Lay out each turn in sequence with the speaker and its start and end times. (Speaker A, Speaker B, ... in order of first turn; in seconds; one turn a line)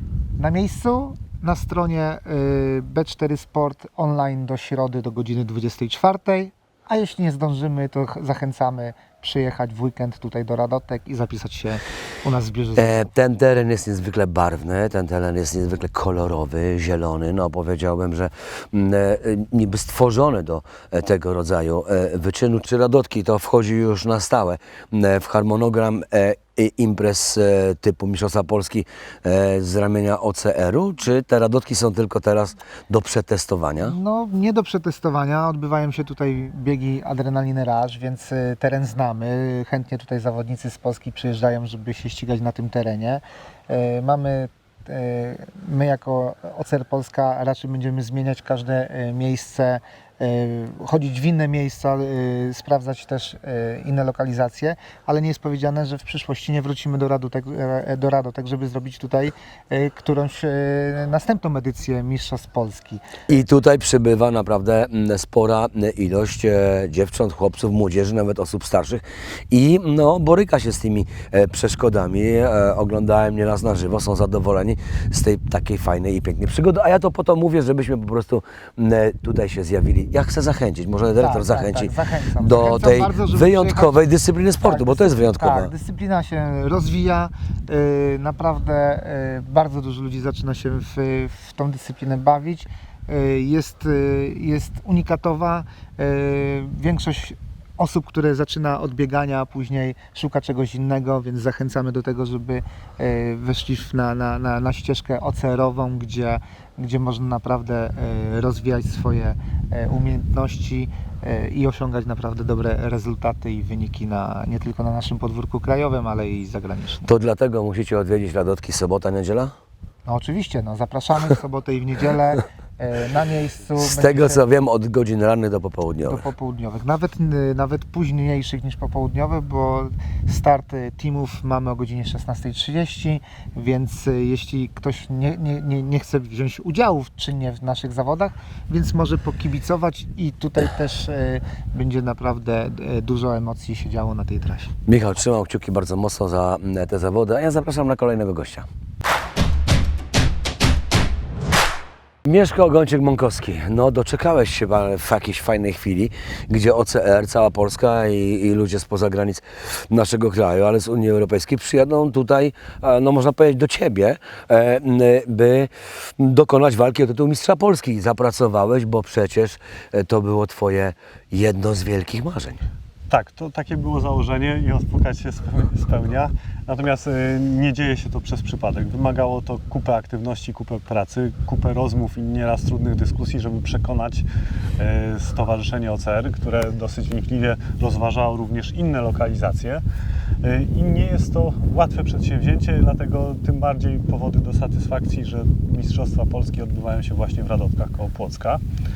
Speaker A: 0.4-13.1
Speaker B: 12.8-34.0
Speaker A: 33.8-63.0
Speaker B: 63.3-85.7
Speaker A: 81.2-84.0
Speaker A: 84.6-117.1
Speaker B: 117.1-119.5
Speaker A: 120.1-124.4
Speaker B: 123.8-126.2
Speaker A: 126.1-144.7
Speaker B: 144.9-148.7
Speaker B: 152.2-172.6
Speaker C: 173.1-184.3
Speaker C: 184.8-189.8
Speaker C: 190.4-198.6